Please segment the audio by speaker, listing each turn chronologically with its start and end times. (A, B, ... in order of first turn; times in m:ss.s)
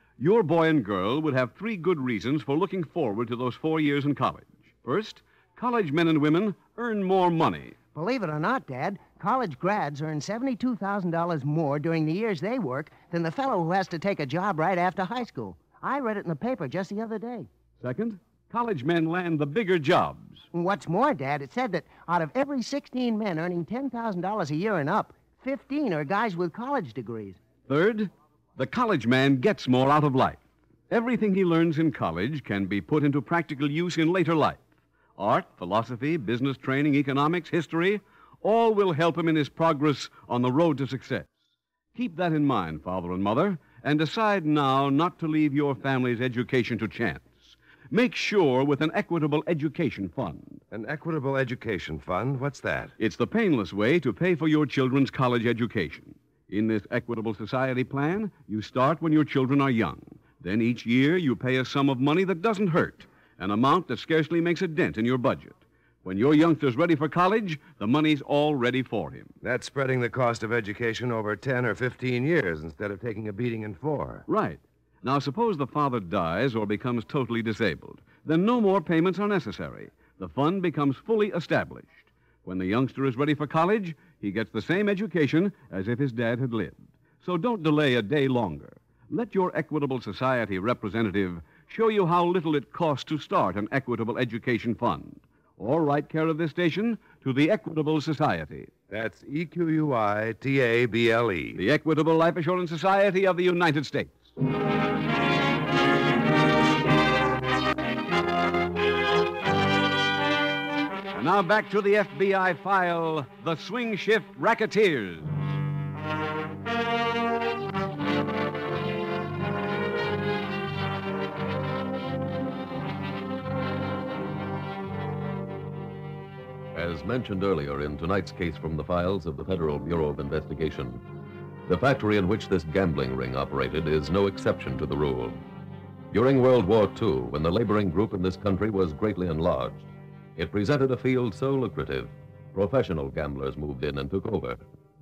0:00.2-0:07.7 A
0:07.9-0:17.5 B
0:17.8-0:20.5 A
0:20.5-0:27.4 B
0:27.7-0:41.4 A
0:41.9-0:50.6 A
0:50.7-0:52.9 C
0:53.0-1:09.3 A
1:09.4-1:14.2 C
1:14.3-1:38.7 A
1:38.9-1:41.6 C
1:41.5-1:44.3 A
1:51.1-1:55.4 A
2:06.7-2:11.0 D
2:11.7-2:15.4 D
2:16.1-2:24.6 D